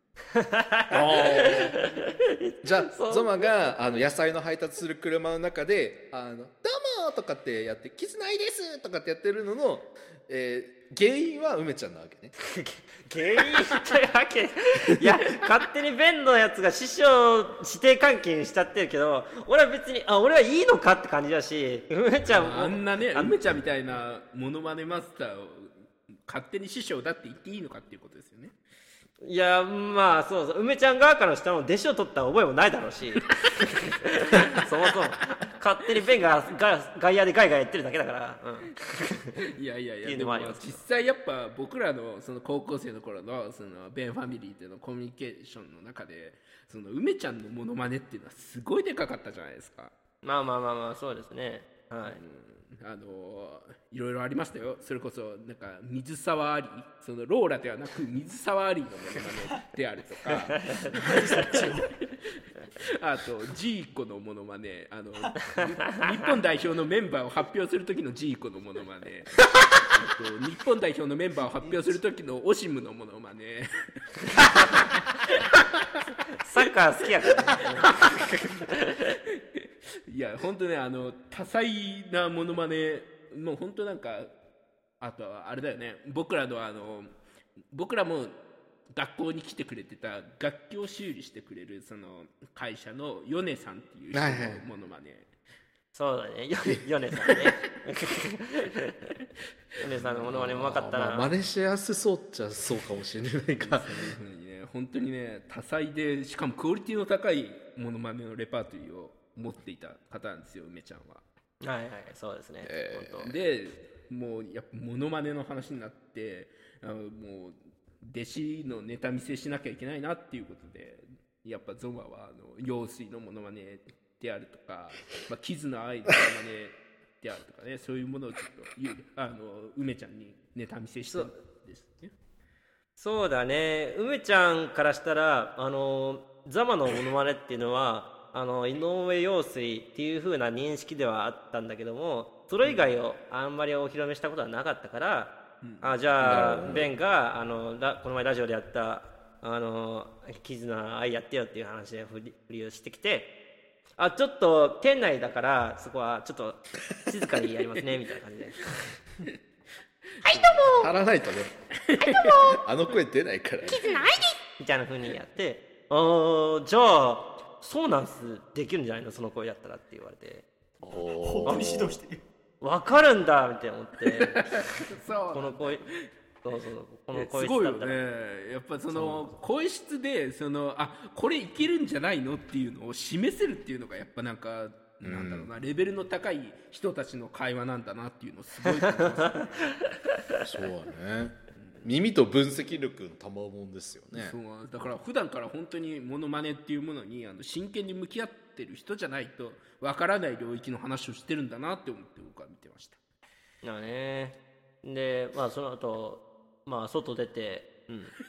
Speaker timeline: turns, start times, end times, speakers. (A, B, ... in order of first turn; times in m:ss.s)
0:00.3-0:03.7 A
0:00.9-0:01.8 B
0:02.6-0:12.3 B
0:12.4-0:23.4 A
0:22.3-0:28.5 C
0:29.2-0:39.4 A
0:39.4-0:50.0 C
0:40.0-0:40.8 A
0:50.2-0:52.2 A
0:52.0-1:02.1 C
1:00.5-1:01.0 A
1:01.0-1:02.0 D
1:02.8-1:15.6 C
1:16.4-1:18.9 A
1:17.6-1:18.3 C
1:19.6-1:24.3 C
1:25.0-1:27.1 C
1:27.7-1:28.4 C
1:28.9-1:35.3 C
1:34.1-1:34.6 B
1:35.9-1:38.9 A
1:39.8-1:41.3 A
1:40.2-1:44.1 B
1:43.6-1:51.2 C
1:51.6-1:53.3 A
1:52.6-1:53.2 B
1:53.2-2:12.1 C
2:13.0-2:33.3 A
2:25.6-2:26.0 C
2:26.2-2:26.9 B
2:34.0-2:38.6 A
2:40.2-2:41.0 E
2:40.3-2:40.8 C
2:40.8-2:41.5 B
2:41.9-2:42.2 C
2:42.0-2:42.6 E
2:42.5-2:43.9 B
2:43.7-2:44.4 E
2:44.6-2:50.5 A
2:50.8-2:52.0 B
2:51.1-2:52.2 D
2:52.6-2:54.6 A
2:54.2-2:56.0 C
2:55.3-2:55.9 A
2:56.4-2:58.0 A
2:57.1-3:09.8 C
2:59.0-2:59.3 A
3:05.0-3:05.5 B
3:10.4-3:14.4 B
3:14.1-3:23.0 C
3:23.6-3:28.1 A